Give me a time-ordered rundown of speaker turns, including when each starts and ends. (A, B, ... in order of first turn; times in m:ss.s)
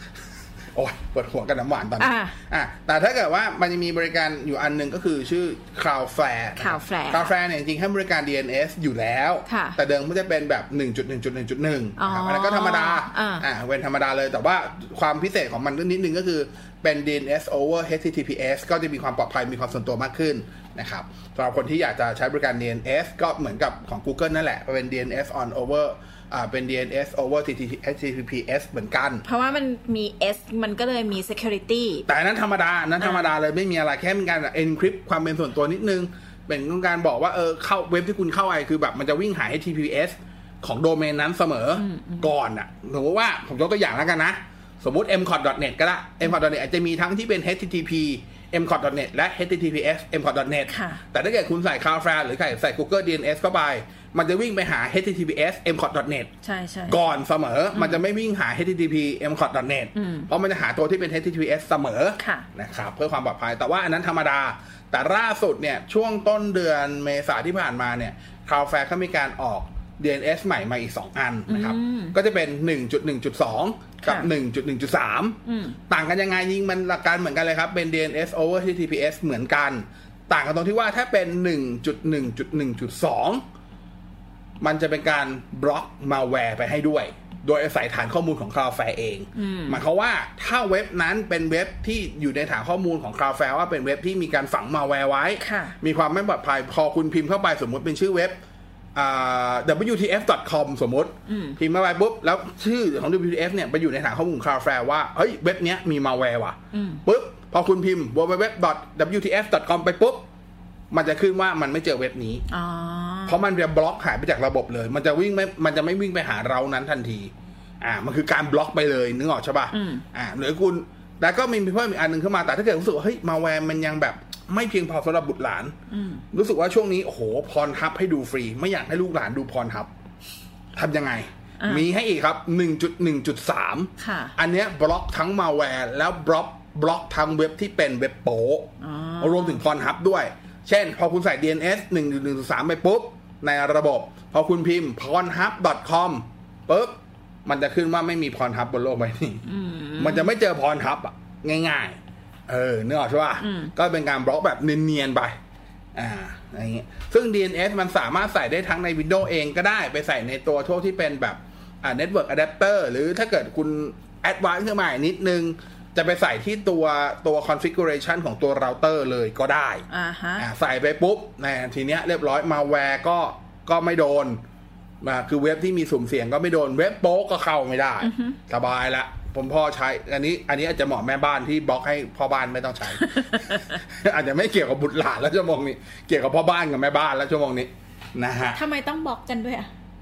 0:00.7-0:29.2 A
0:02.0-0:02.3 B
0:06.6-0:07.3 B
0:09.5-0:09.8 B
0:12.0-0:13.4 B
0:29.2-0:32.1 B
0:32.1-0:56.3 A
0:33.0-0:33.3 B
0:41.8-0:42.3 B
0:50.7-0:51.0 B
0:56.4-0:57.0 B
0:56.9-1:23.4 A
0:57.7-0:58.0 B
0:59.9-1:00.3 B
1:02.2-1:02.4 B
1:11.5-1:12.2 B
1:14.0-1:14.3 B
1:15.4-1:15.8 B
1:24.6-1:38.4 A
1:29.3-1:29.8 B
1:35.4-1:35.8 B
1:38.9-1:50.2 A
1:41.3-1:41.6 B
1:46.7-1:47.0 B
1:50.9-1:52.4 A
1:52.5-1:53.4 B
1:53.2-2:05.7 A
1:59.7-2:00.0 B
2:05.9-2:06.2 B
2:06.3-2:09.9 A
2:10.7-2:29.4 A
2:11.6-2:11.8 B
2:14.0-2:14.3 B
2:18.8-2:19.6 B
2:29.4-2:30.3 B
2:30.0-2:35.4 A
2:33.4-2:33.7 B
2:35.9-2:49.8 A
2:49.9-2:50.4 B
2:50.4-2:54.4 A
2:55.0-3:08.6 A
2:58.0-2:58.4 B
3:03.0-3:03.8 B
3:08.5-3:09.7 B